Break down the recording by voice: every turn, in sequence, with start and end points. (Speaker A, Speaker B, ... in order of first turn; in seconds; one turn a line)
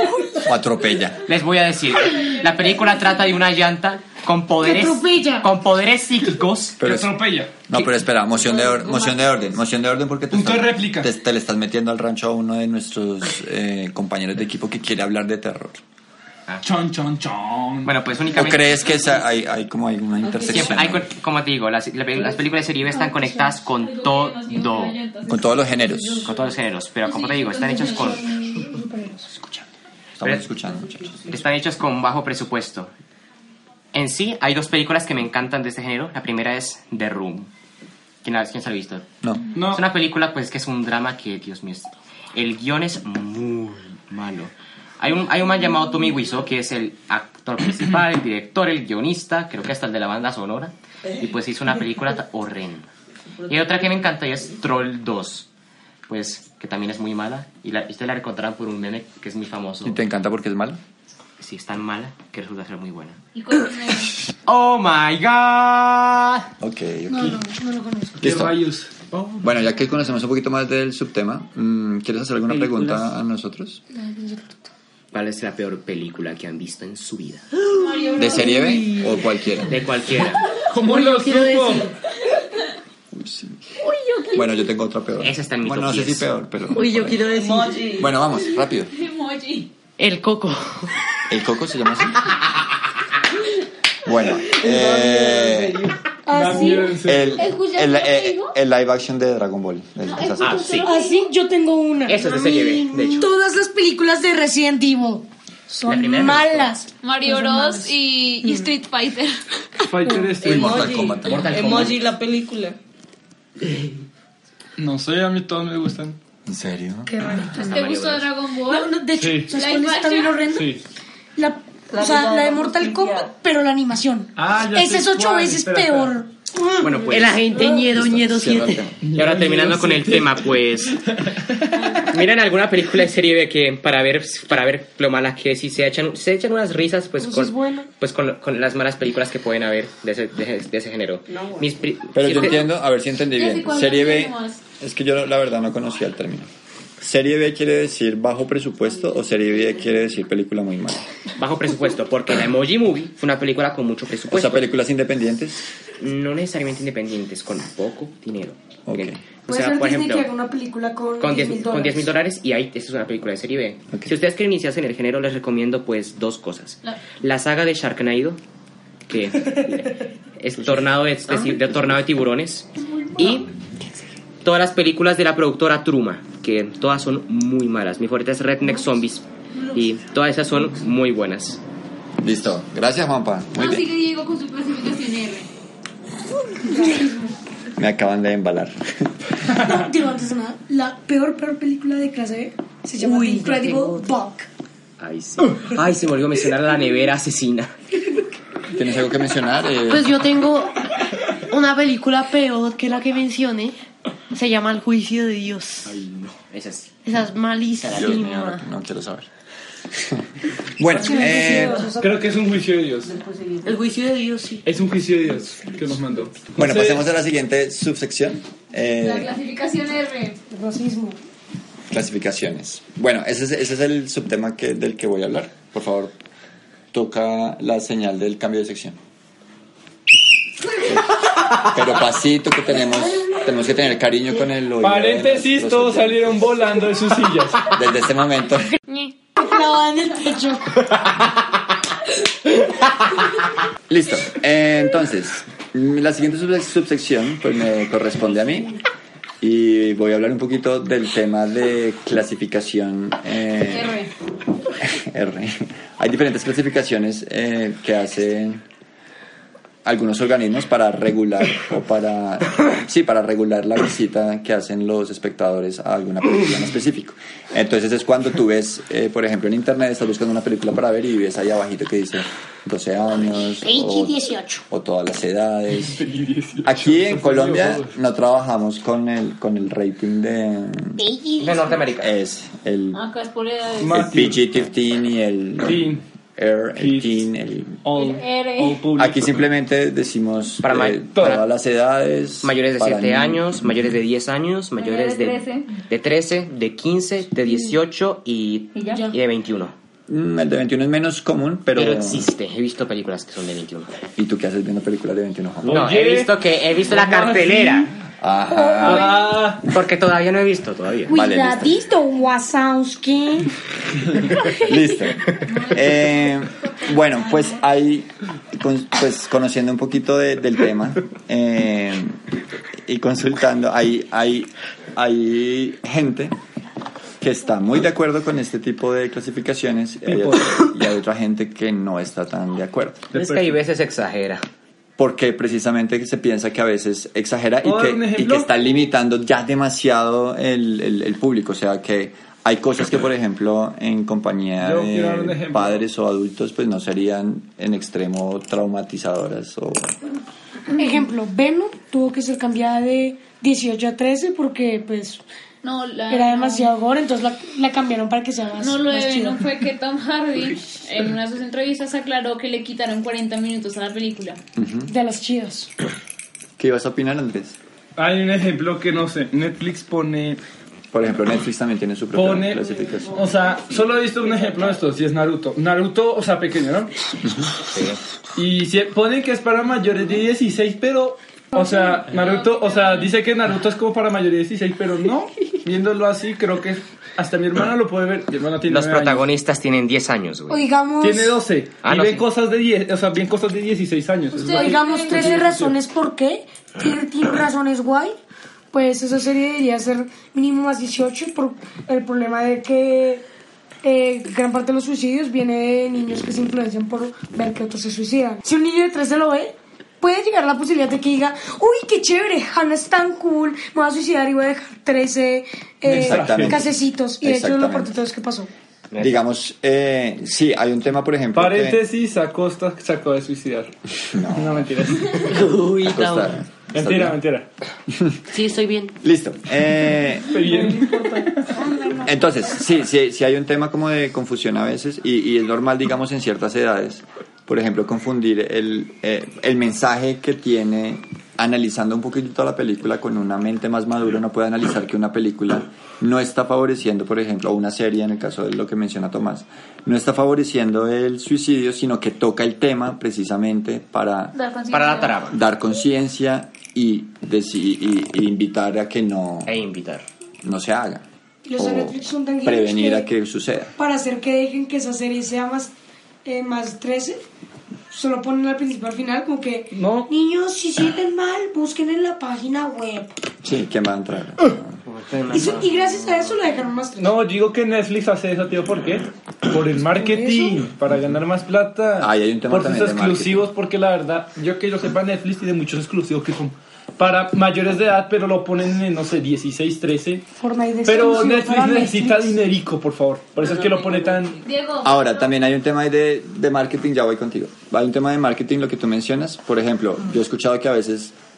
Speaker A: 0.4-1.2
Speaker B: 1.2-6.8
Speaker C: 4.6-5.5
Speaker A: 6.8-7.2
Speaker D: 6.8-7.5
Speaker A: 7.7-15.8
Speaker E: 8.8-9.1
Speaker D: 10.3-11.1
Speaker D: 16.6-17.9
Speaker B: 17.8-18.9
Speaker A: 18.3-21.1
Speaker B: 20.5-24.9
Speaker C: 22.9-23.5
Speaker F: 23.8-26.4
Speaker A: 25.3-26.3
Speaker B: 26.2-28.3
Speaker F: 27.0-28.4
Speaker C: 27.6-29.7
Speaker A: 30.2-31.3
Speaker B: 30.2-30.5
Speaker B: 31.3-32.9
Speaker B: 33.9-37.5
Speaker B: 38.2-39.0
Speaker A: 39.2-39.5
Speaker D: 39.5-39.9
Speaker B: 39.6-52.9
Speaker E: 53.4-54.4
Speaker B: 53.5-55.5
Speaker B: 56.1-60.0
Speaker A: 59.8-60.8
Speaker B: 61.4-66.5
Speaker F: 63.3-64.2
Speaker A: 66.6-67.4
Speaker C: 67.1-68.2
Speaker A: 68.2-68.6
Speaker D: 68.2-68.9
Speaker B: 69.1-69.4
Speaker A: 69.4-73.8
Speaker B: 72.5-73.1
Speaker C: 73.9-74.6
Speaker B: 75.1-77.5
Speaker F: 77.8-78.8
Speaker A: 78.2-79.9
Speaker G: 78.6-79.1
Speaker B: 79.7-80.5
Speaker D: 80.7-81.9
Speaker G: 80.8-81.9
Speaker A: 83.1-83.6
Speaker F: 83.8-84.5
Speaker A: 84.3-87.2
Speaker B: 85.2-86.3
Speaker G: 86.7-88.0
Speaker E: 87.3-88.1
Speaker A: 88.0-88.9
Speaker F: 88.9-89.7
Speaker G: 90.0-90.9
Speaker A: 91.3-92.3
Speaker A: 94.0-95.9
Speaker E: 94.6-95.9
Speaker C: 96.2-97.0
Speaker D: 96.3-97.3
Speaker A: 97.0-100.8
Speaker F: 97.3-98.5
Speaker F: 100.0-101.3
Speaker B: 100.4-100.9
Speaker C: 100.8-102.4
Speaker B: 102.1-103.3
Speaker G: 102.2-103.3
Speaker C: 103.1-107.9
Speaker B: 105.8-106.7
Speaker F: 107.0-109.4
Speaker C: 108.4-108.7
Speaker C: 109.8-110.3
Speaker D: 109.9-110.9
Speaker A: 110.4-111.8
Speaker E: 110.4-112.8
Speaker B: 111.2-112.0
Speaker D: 114.8-116.2
Speaker A: 116.5-117.4
Speaker C: 117.1-117.8
Speaker F: 117.5-118.9
Speaker B: 117.5-118.3
Speaker C: 118.7-120.8
Speaker D: 119.2-119.5
Speaker F: 119.5-120.4
Speaker D: 120.5-120.8
Speaker C: 121.3-126.9
Speaker E: 121.9-123.3
Speaker D: 124.3-126.1
Speaker B: 126.8-127.6
Speaker G: 127.0-128.9
Speaker A: 127.7-129.0
Speaker D: 129.0-130.5
Speaker B: 129.1-131.0
Speaker D: 131.1-131.9
Speaker B: 131.9-142.6
Speaker C: 137.2-137.9
Speaker E: 141.3-141.7
Speaker A: 142.1-146.5
Speaker F: 143.3-144.6
Speaker A: 147.0-151.1
Speaker B: 151.4-154.7
Speaker A: 154.3-155.7
Speaker B: 156.0-160.3
Speaker A: 158.8-159.2
Speaker C: 159.5-162.1
Speaker B: 161.2-168.4
Speaker B: 169.1-173.5
Speaker A: 170.6-172.0
Speaker B: 174.4-181.6
Speaker A: 182.2-183.9
Speaker F: 183.5-185.5
Speaker C: 186.6-187.3
Speaker A: 187.8-189.1
Speaker C: 189.5-194.5
Speaker G: 193.0-194.1
Speaker B: 195.0-197.7
Speaker A: 198.7-200.1
Speaker G: 199.9-200.8
Speaker G: 201.5-203.8
Speaker G: 204.3-205.9
Speaker B: 205.9-206.9
Speaker G: 207.0-208.7
Speaker A: 207.9-209.3
Speaker A: 209.9-210.2
Speaker A: 210.8-211.9
Speaker C: 211.0-212.2
Speaker D: 211.9-213.1
Speaker E: 213.1-213.7
Speaker G: 213.6-214.8
Speaker D: 214.6-217.0
Speaker A: 216.6-219.3
Speaker F: 219.0-220.4
Speaker C: 220.5-221.2
Speaker A: 221.9-226.1
Speaker A: 226.9-229.0
Speaker A: 231.6-236.5
Speaker D: 234.8-237.8
Speaker A: 237.7-238.7
Speaker C: 239.3-240.9
Speaker A: 243.9-248.7
Speaker A: 249.4-254.0
Speaker F: 253.7-254.1
Speaker A: 254.8-258.6
Speaker A: 259.8-276.0
Speaker C: 273.6-274.6
Speaker D: 275.8-277.9
Speaker A: 276.6-281.1
Speaker C: 281.0-281.7
Speaker B: 281.4-282.1
Speaker A: 282.0-283.0
Speaker F: 282.9-284.0
Speaker D: 283.8-284.4
Speaker A: 283.9-287.8
Speaker D: 285.6-286.0
Speaker D: 286.8-287.2
Speaker D: 287.8-289.4
Speaker F: 287.9-288.8
Speaker A: 289.0-293.8
Speaker B: 290.6-291.4
Speaker B: 292.4-299.7
Speaker F: 294.8-295.7
Speaker F: 298.7-299.0
Speaker C: 298.9-299.1
Speaker A: 300.1-302.3
Speaker B: 301.7-303.9
Speaker A: 304.2-305.9
Speaker D: 305.6-306.3
Speaker B: 305.7-307.9
Speaker D: 306.9-307.9
Speaker A: 308.2-309.2
Speaker C: 308.5-309.3
Speaker D: 308.8-309.7
Speaker B: 309.6-311.1
Speaker A: 311.1-311.9
Speaker C: 311.1-313.5
Speaker A: 314.5-322.2
Speaker F: 315.4-316.1
Speaker A: 322.9-326.4
Speaker A: 327.2-333.1
Speaker D: 330.1-330.7
Speaker D: 333.1-333.6
Speaker B: 333.1-334.4
Speaker A: 335.0-349.9
Speaker D: 337.6-338.5
Speaker D: 344.6-345.8
Speaker C: 350.8-355.2
Speaker F: 350.8-351.1
Speaker F: 355.6-356.7
Speaker C: 356.1-359.5
Speaker F: 358.6-364.4
Speaker A: 364.6-364.9
Speaker C: 364.9-365.7
Speaker A: 366.6-367.6
Speaker D: 367.9-370.4
Speaker A: 370.9-373.3
Speaker D: 372.1-376.9
Speaker B: 377.7-378.0
Speaker D: 378.4-389.3
Speaker F: 382.2-383.1
Speaker B: 388.7-390.6
Speaker C: 390.5-391.4
Speaker D: 391.0-395.7
Speaker B: 391.8-392.2
Speaker F: 394.3-395.6
Speaker C: 394.5-398.2
Speaker C: 398.7-403.2
Speaker C: 403.8-418.5
Speaker D: 415.9-416.6
Speaker A: 415.9-418.0
Speaker B: 418.9-419.2
Speaker A: 419.0-421.8
Speaker D: 421.3-423.7
Speaker A: 424.1-427.2
Speaker D: 424.2-425.4
Speaker G: 425.2-426.4
Speaker D: 426.7-427.5
Speaker G: 428.3-428.9
Speaker A: 429.0-430.4
Speaker D: 430.3-431.5
Speaker E: 430.4-432.0
Speaker A: 432.0-454.3
Speaker F: 454.3-455.2
Speaker B: 454.7-455.4
Speaker A: 455.3-459.5
Speaker B: 459.4-460.1
Speaker A: 460.4-461.1
Speaker C: 461.4-463.1
Speaker A: 461.6-463.7
Speaker C: 463.8-465.7
Speaker C: 466.2-467.2
Speaker C: 467.9-473.2
Speaker D: 469.7-470.1
Speaker A: 473.4-474.8
Speaker B: 474.9-476.4
Speaker C: 475.3-477.2
Speaker D: 477.0-490.2
Speaker C: 479.9-480.6
Speaker A: 482.0-483.5
Speaker C: 490.4-492.4
Speaker D: 490.8-494.4
Speaker F: 494.4-495.3
Speaker A: 494.8-501.1